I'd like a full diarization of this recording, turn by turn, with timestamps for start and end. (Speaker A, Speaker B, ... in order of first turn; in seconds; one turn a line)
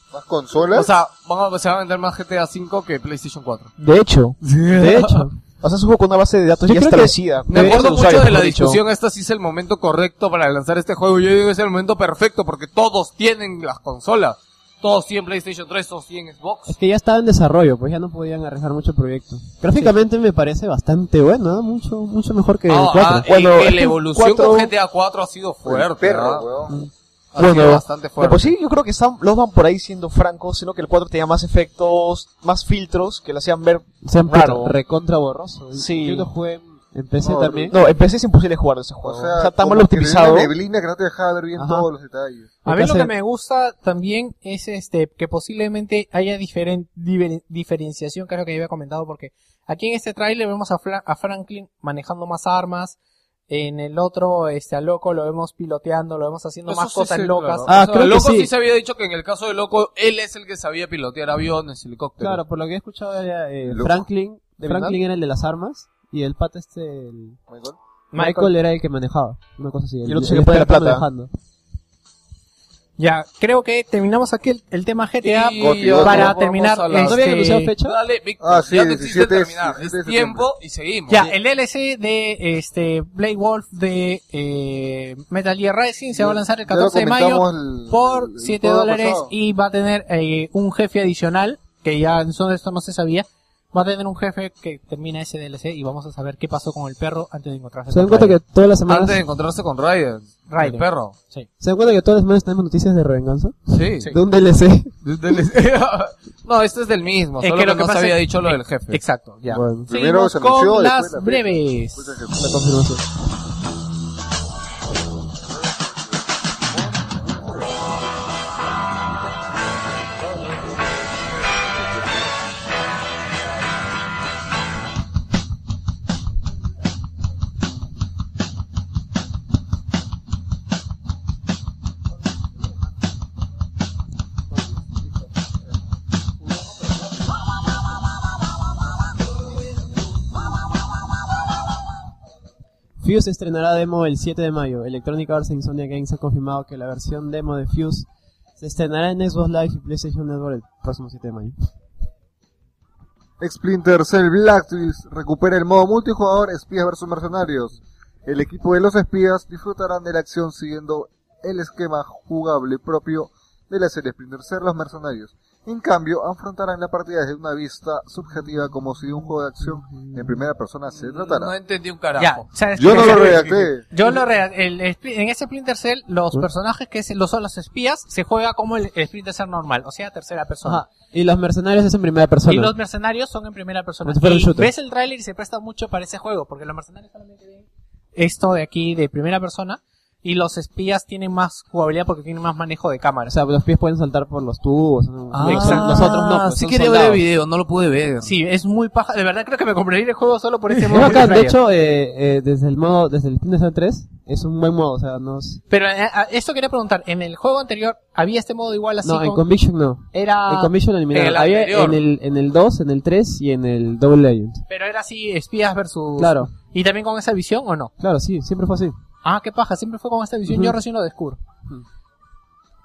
Speaker A: 0.1-0.9
Speaker B: 0.7-3.7
Speaker C: 3.8-4.4
Speaker B: 4.4-5.3
Speaker D: 4.7-5.4
Speaker C: 5.6-8.8
Speaker D: 6.6-8.0
Speaker B: 7.5-16.8
Speaker D: 16.7-23.3
Speaker B: 22.7-26.5
Speaker C: 23.2-24.7
Speaker A: 25.6-26.8
Speaker B: 27.3-28.6
Speaker C: 27.4-34.8
Speaker D: 34.0-37.8
Speaker C: 35.7-36.3
Speaker A: 37.2-37.8
Speaker C: 37.7-40.5
Speaker A: 39.0-42.6
Speaker D: 41.6-41.9
Speaker D: 42.6-43.1
Speaker E: 42.6-53.0
Speaker E: 53.5-57.7
Speaker B: 56.7-62.4
Speaker D: 57.7-58.5
Speaker D: 62.2-67.4
Speaker A: 63.7-64.1
Speaker B: 64.6-65.0
Speaker A: 67.5-67.8
Speaker E: 68.1-68.5
Speaker D: 68.2-71.3
Speaker C: 70.1-71.1
Speaker E: 73.0-77.7
Speaker B: 75.2-77.2
Speaker A: 75.6-76.3
Speaker D: 77.0-78.0
Speaker B: 77.8-81.3
Speaker A: 78.4-80.5
Speaker E: 81.1-98.4
Speaker A: 86.2-89.3
Speaker D: 97.9-99.2
Speaker B: 98.9-101.2
Speaker E: 100.5-101.5
Speaker D: 101.6-104.9
Speaker B: 103.7-104.2
Speaker B: 105.0-109.0
Speaker E: 107.4-112.0
Speaker D: 109.5-109.9
Speaker A: 109.9-112.6
Speaker D: 112.3-113.1
Speaker D: 143.0-151.7
Speaker A: 153.4-171.5
Speaker B: 170.9-173.7
Speaker E: 172.2-180.8
Speaker A: 172.8-173.8
Speaker D: 180.6-182.7
Speaker E: 182.5-193.3
Speaker D: 184.1-184.7
Speaker D: 193.3-197.2
Speaker B: 195.3-198.3
Speaker E: 195.4-196.1
Speaker E: 198.2-201.6
Speaker D: 200.9-205.6
Speaker E: 205.7-209.4
Speaker D: 209.0-214.6
Speaker E: 210.1-210.7
Speaker B: 211.1-212.0
Speaker E: 214.7-217.9
Speaker D: 216.2-216.5
Speaker D: 218.0-219.0
Speaker E: 219.2-221.4
Speaker D: 220.5-220.8